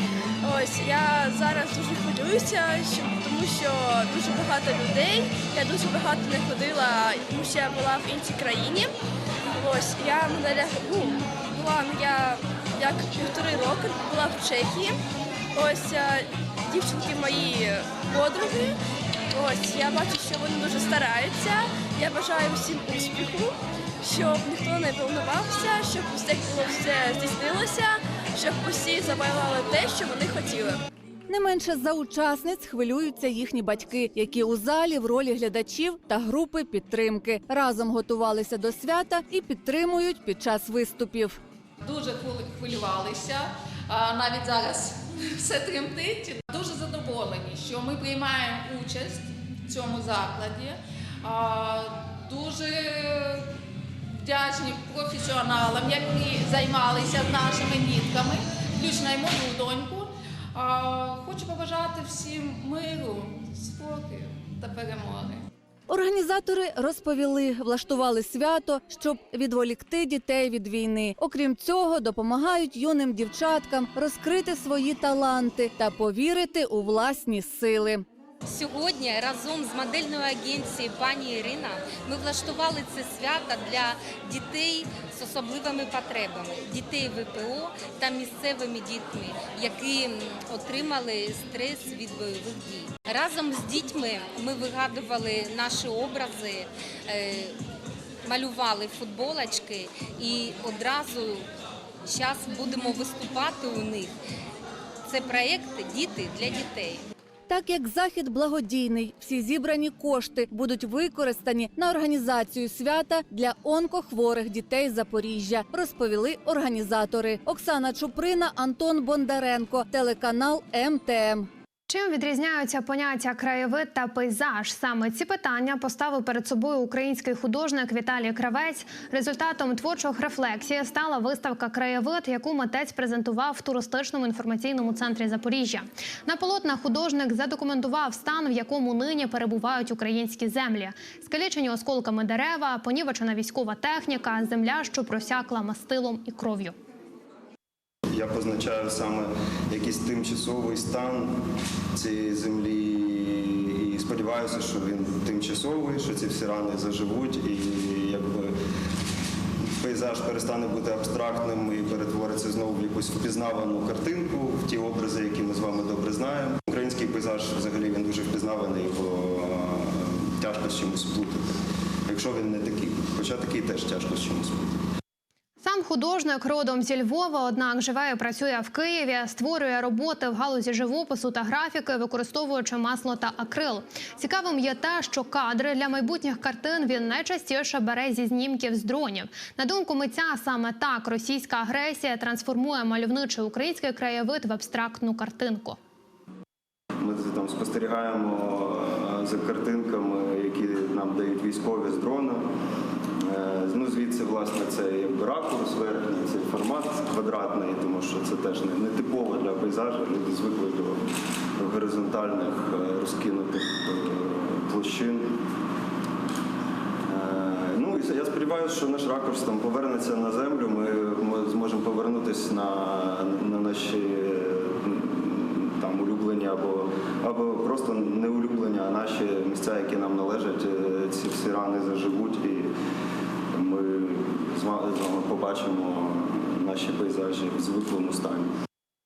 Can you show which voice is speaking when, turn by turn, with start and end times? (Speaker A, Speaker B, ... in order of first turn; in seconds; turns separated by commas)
Speaker A: 0.4-8.9, Speaker A: 9.6-15.0, Speaker A: 15.6-18.8, Speaker A: 19.3-30.8, Speaker B: 31.3-41.4, Speaker C: 41.8-53.5, Speaker C: 54.1-65.4, Speaker B: 65.9-78.1, Speaker D: 78.5-97.6, Speaker D: 98.2-101.5, Speaker D: 102.0-104.1, Speaker D: 105.1-107.0, Speaker B: 107.5-121.5, Speaker E: 121.9-146.8, Speaker F: 148.1-151.4, Speaker F: 151.9-158.5, Speaker F: 159.8-171.4, Speaker F: 172.1-174.8, Speaker E: 175.6-195.8, Speaker F: 197.0-202.4, Speaker F: 203.2-211.0, Speaker F: 211.6-215.4, Speaker F: 217.1-232.7, Speaker F: 233.6-238.5